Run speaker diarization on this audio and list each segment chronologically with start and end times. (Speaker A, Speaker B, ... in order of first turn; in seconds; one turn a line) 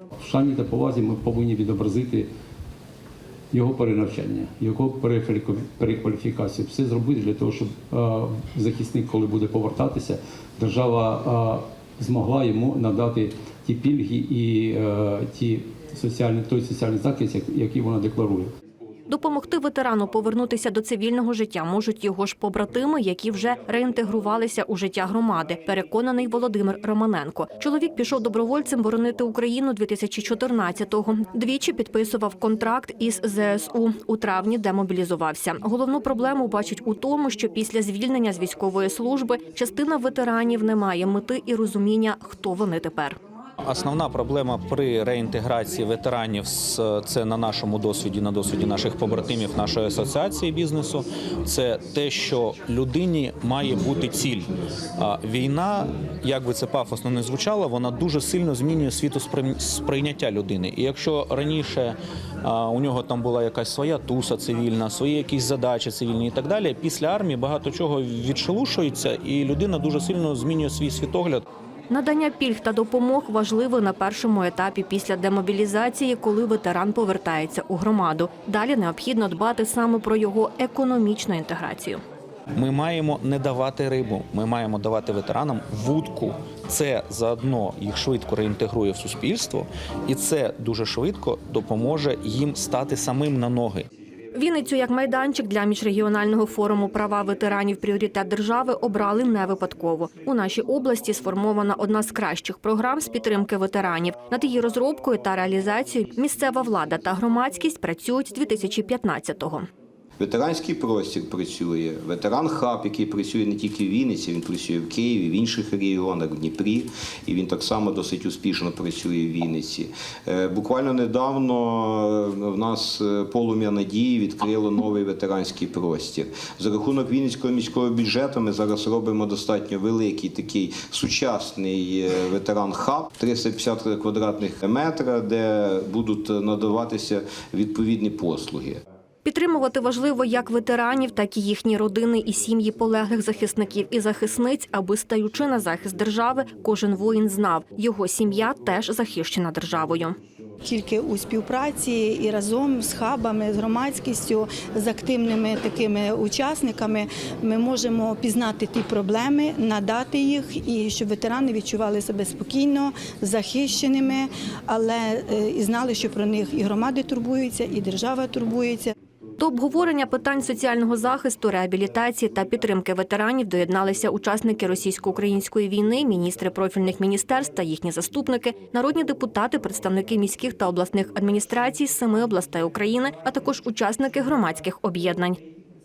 Speaker A: 0.2-2.3
Speaker A: 3.5-18.5
Speaker B: 19.1-43.2
Speaker C: 43.6-54.5
Speaker C: 55.0-71.4
Speaker B: 71.9-82.0
Speaker C: 82.5-93.9
Speaker B: 94.3-109.7
Speaker D: 110.2-138.8
Speaker B: 139.2-150.2
Speaker E: 150.6-168.9
Speaker B: 169.4-185.4